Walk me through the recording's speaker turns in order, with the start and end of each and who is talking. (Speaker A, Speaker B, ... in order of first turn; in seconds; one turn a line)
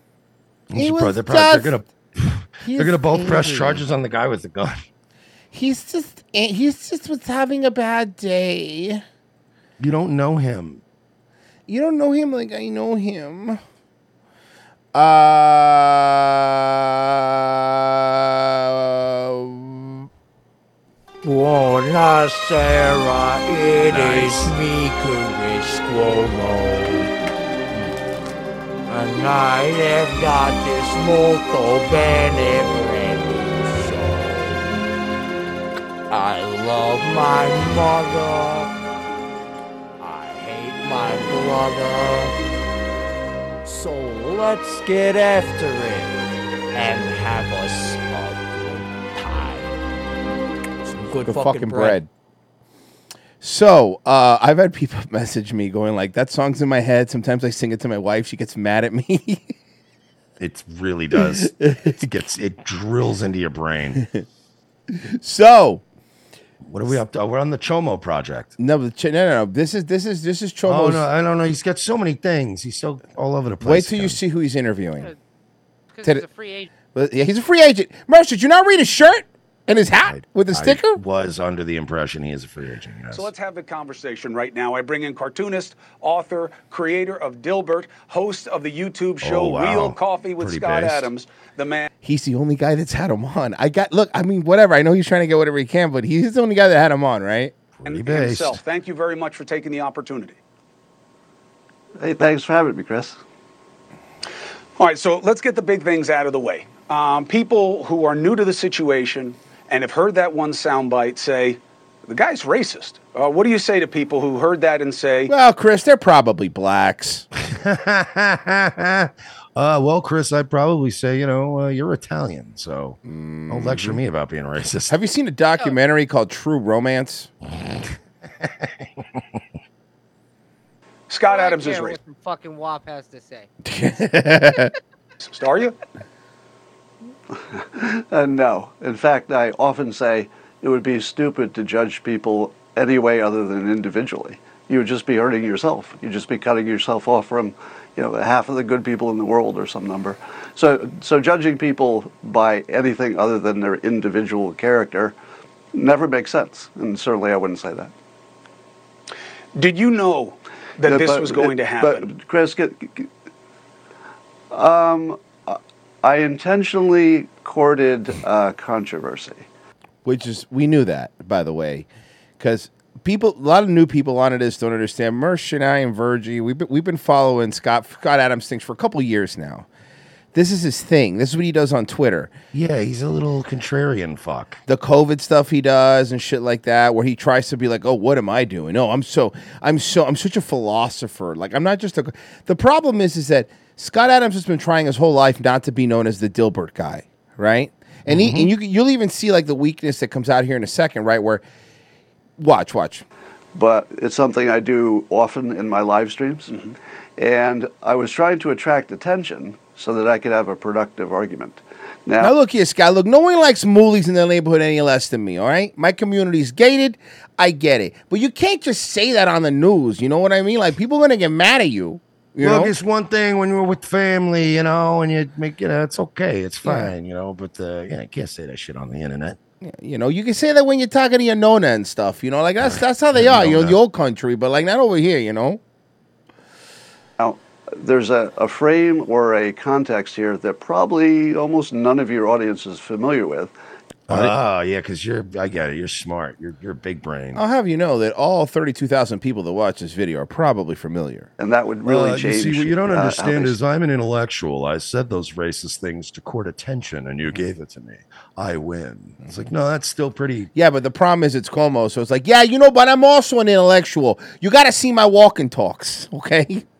Speaker A: 0.7-4.8
Speaker B: 0.7-1.8
Speaker B: 2.6-3.9
Speaker B: 5.5-9.0
Speaker A: 9.8-10.8
Speaker B: 11.7-13.6
Speaker B: 14.9-20.1
Speaker C: 21.2-27.1
Speaker A: 23.9-24.5
Speaker C: 28.9-34.6
Speaker C: 36.1-38.7
Speaker C: 40.0-42.3
Speaker C: 43.6-46.2
Speaker C: 46.7-49.7
Speaker C: 50.9-52.0
Speaker B: 51.2-52.1
Speaker B: 53.4-59.5
Speaker A: 60.4-64.0
Speaker B: 61.1-62.0
Speaker B: 64.0-64.2
Speaker B: 65.1-65.8
Speaker A: 66.6-68.5
Speaker B: 68.6-71.1
Speaker A: 70.7-74.2
Speaker B: 73.6-75.1
Speaker D: 75.9-76.7
Speaker B: 76.9-81.0
Speaker A: 80.0-83.3
Speaker E: 83.1-91.9
Speaker A: 89.2-91.1
Speaker B: 92.0-97.5
Speaker A: 97.7-98.6
Speaker E: 97.8-100.4
Speaker F: 102.0-103.2
Speaker E: 104.8-115.3
Speaker B: 115.3-117.2
Speaker A: 117.4-123.0
Speaker B: 123.0-124.0
Speaker A: 123.5-125.0
Speaker B: 124.9-127.3
Speaker A: 128.4-129.2
Speaker E: 131.1-132.0
Speaker D: 131.3-133.5
Speaker B: 133.6-134.7
Speaker E: 135.3-135.8
Speaker F: 137.6-155.1
Speaker F: 155.7-157.9
Speaker E: 159.6-162.1
Speaker F: 160.8-163.1
Speaker F: 164.5-169.4
Speaker B: 170.1-171.9
Speaker B: 172.4-179.7
Speaker B: 180.3-182.3
Speaker A: 182.5-184.6
Speaker B: 184.7-201.4
Speaker A: 198.1-198.5
Speaker B: 202.4-203.1
Speaker F: 203.6-206.6
Speaker F: 207.2-212.3
Speaker B: 212.2-222.7
Speaker A: 222.4-229.4
Speaker B: 226.6-226.9
Speaker B: 229.6-235.6
Speaker A: 232.6-233.8
Speaker F: 237.2-243.5
Speaker A: 244.1-247.4
Speaker B: 244.1-244.3
Speaker B: 247.3-251.3
Speaker F: 251.4-253.6
Speaker A: 251.8-260.5
Speaker B: 260.6-266.6